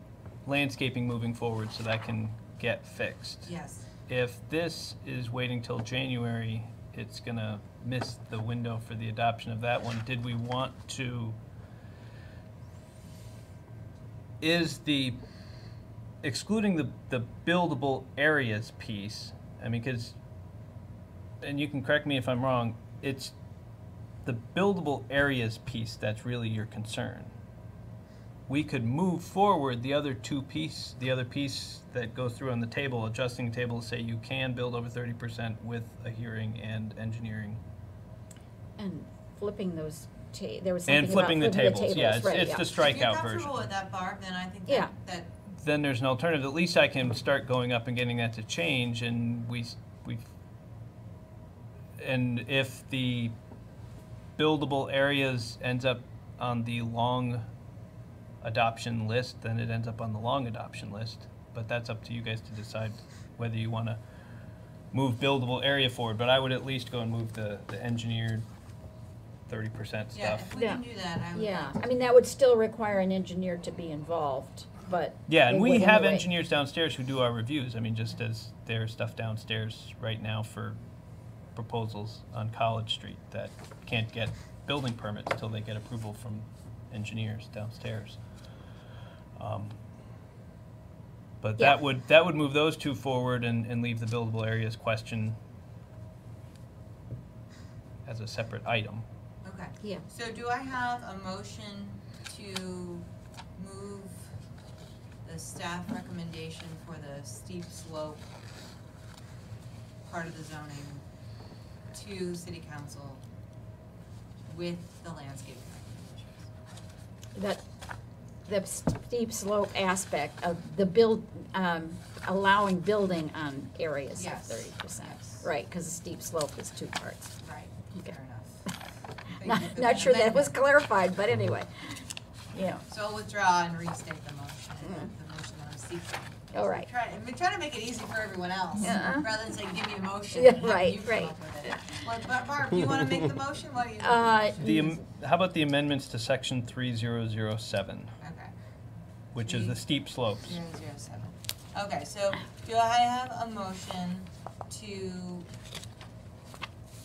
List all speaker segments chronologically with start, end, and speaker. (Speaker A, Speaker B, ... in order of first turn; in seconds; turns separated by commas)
Speaker A: 0.4-3.5, Speaker B: 3.4-3.9, Speaker A: 4.1-11.4, Speaker A: 14.4-15.2, Speaker A: 16.2-20.1, Speaker A: 21.4-23.3, Speaker A: 24.2-27.3, Speaker A: 28.5-37.6, Speaker C: 38.8-42.7, Speaker A: 40.9-43.5, Speaker B: 42.8-45.3, Speaker A: 45.5-50.3, Speaker A: 52.0-53.3, Speaker A: 54.4-57.5, Speaker A: 58.4-64.0, Speaker A: 64.9-68.5, Speaker A: 69.5-70.5, Speaker B: 70.1-71.9, Speaker C: 70.5-76.3, Speaker A: 75.3-80.8, Speaker A: 81.5-88.2, Speaker A: 89.3-89.8, Speaker A: 91.4-95.4, Speaker A: 98.0-99.0, Speaker B: 99.4-104.3, Speaker B: 105.2-108.2, Speaker B: 110.0-111.0, Speaker B: 111.9-113.2, Speaker B: 114.5-116.5, Speaker C: 117.3-117.6, Speaker C: 118.5-127.3, Speaker B: 124.1-125.5, Speaker B: 127.4-128.6, Speaker B: 129.3-130.6, Speaker C: 129.4-132.8, Speaker B: 132.8-144.6, Speaker C: 134.8-135.1, Speaker C: 136.5-136.9, Speaker C: 138.7-139.5, Speaker C: 140.3-142.0, Speaker C: 144.0-145.0, Speaker A: 144.6-148.1, Speaker B: 148.2-148.5, Speaker A: 149.3-150.6, Speaker B: 149.3-149.8, Speaker B: 150.4-155.5